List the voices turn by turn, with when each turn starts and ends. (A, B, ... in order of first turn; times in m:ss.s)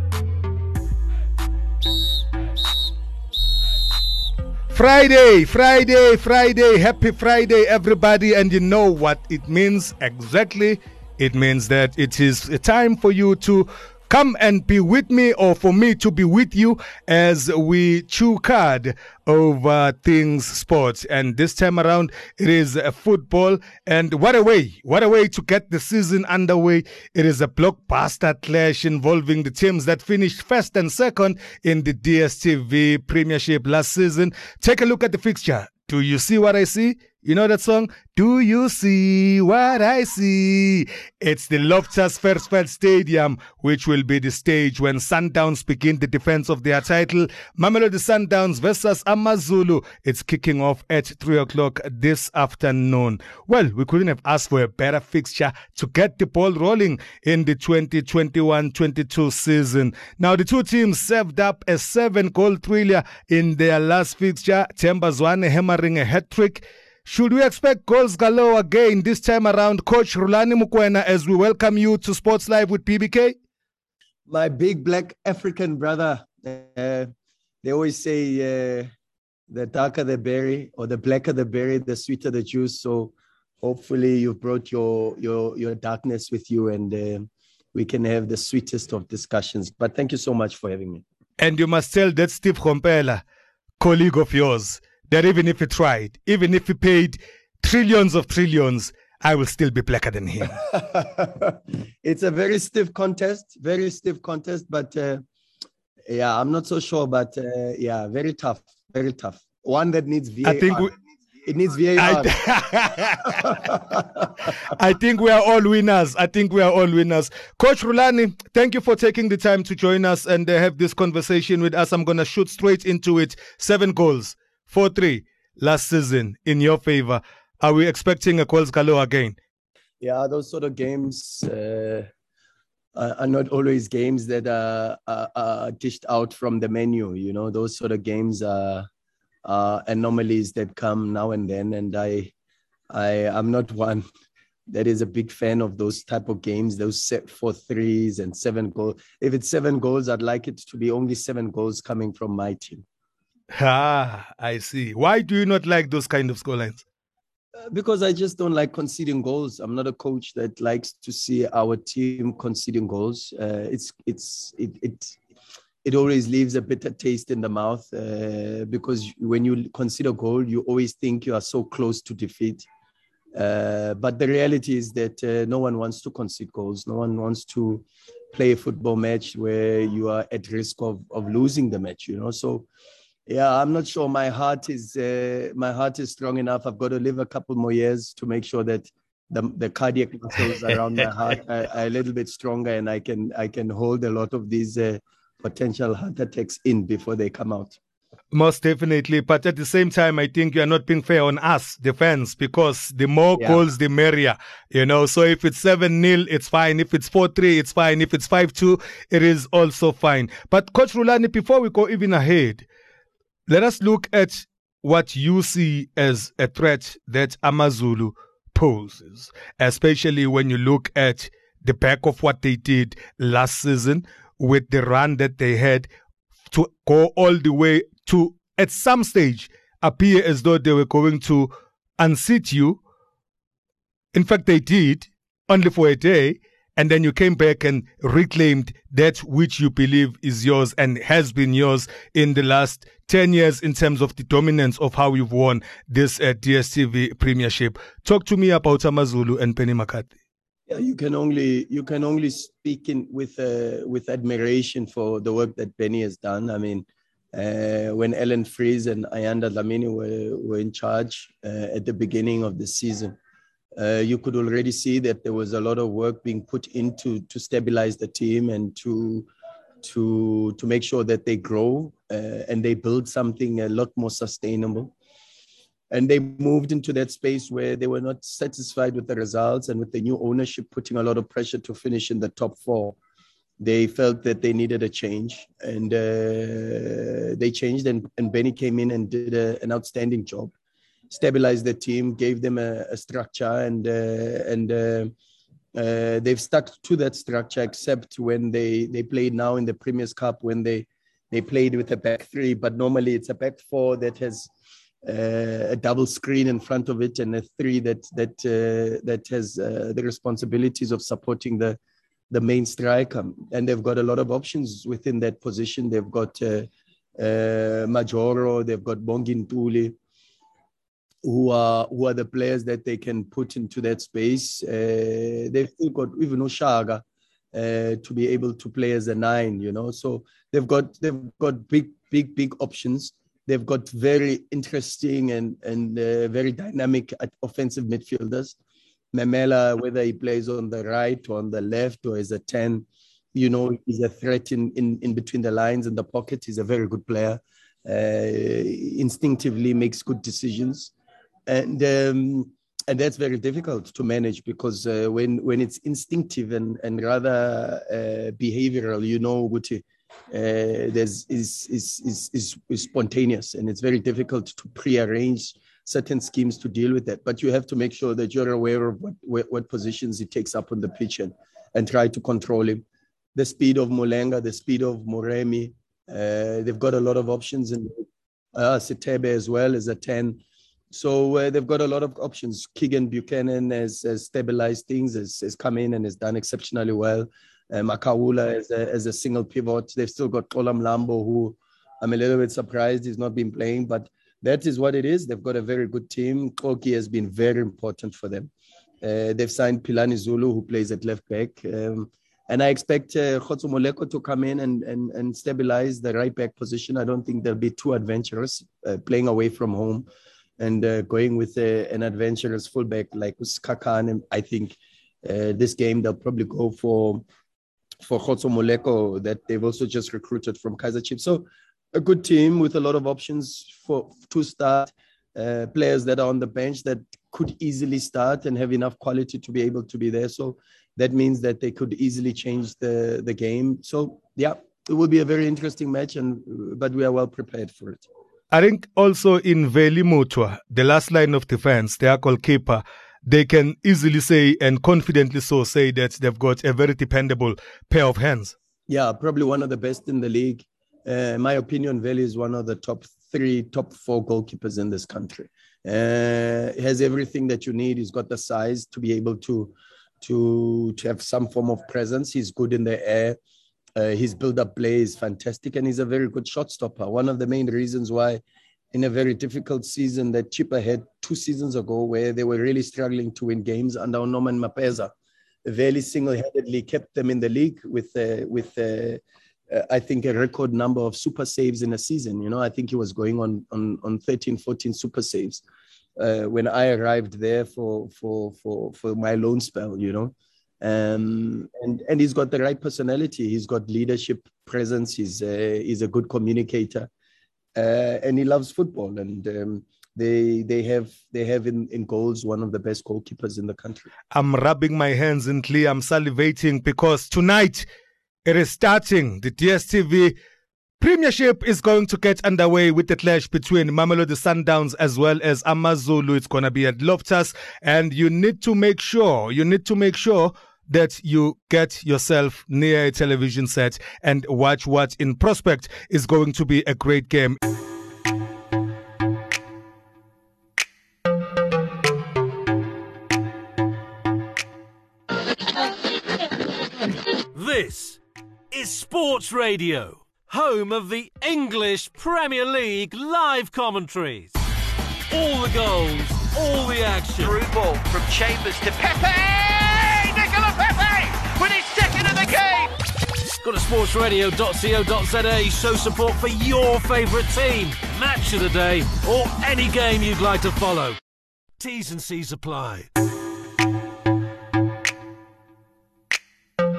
0:04.7-1:13.4 A
1:14.3-1:17.1 B
1:17.6-1:18.9 B
1:19.5-1:31.0 B
1:31.4-1:33.2 A
1:33.8-1:40.6 A
1:40.4-1:45.2 B
1:46.1-1:50.9 B
1:50.4-1:50.9 A
1:51.4-1:52.4 B
1:52.0-1:53.7 A
1:53.3-1:54.3 B
1:54.6-2:09.4 A
2:10.0-2:12.1 B
2:13.0-2:18.9 B
2:19.4-2:22.3 B
2:22.9-2:24.0 B
2:24.7-2:32.8 B
2:33.5-2:36.8 A
2:37.6-2:45.2 B
2:45.8-2:52.7 B
2:53.4-3:02.7 B
3:03.3-3:17.8 B
3:18.3-3:32.7 A
3:33.5-3:45.9 A
3:46.5-3:52.8 A
3:54.1-4:10.1 A
4:10.7-4:23.2 B
4:23.8-4:29.3 B
4:29.8-4:34.9 B
4:35.9-4:43.0 B
4:43.6-4:50.5 B
4:51.1-4:55.1 B
4:55.8-5:04.5 B
5:05.0-5:11.8 B
5:12.3-5:20.0 B
5:21.2-5:38.6 B
5:39.1-5:50.9 B
5:51.5-6:12.8 B
6:13.4-6:20.4 B
6:20.9-6:38.5 B
6:39.0-6:50.1 B
6:50.6-6:57.2 B
6:58.0-7:18.1 B
7:18.5-7:28.6 A
7:28.9-7:43.4 B
7:44.0-7:48.4 B
7:48.9-7:55.1 B
7:55.6-7:59.2 B
7:59.7-8:05.6 B
8:06.2-8:17.1 B
8:17.8-8:24.1 B
8:24.3-8:27.9 A
8:28.4-8:30.4 A
8:31.0-8:47.6 A
8:57.5-8:58.2 C
8:58.7-9:04.6 C
9:05.3-9:07.6 C
9:07.4-9:12.9 D
9:13.6-9:21.2 C
9:21.8-9:23.1 C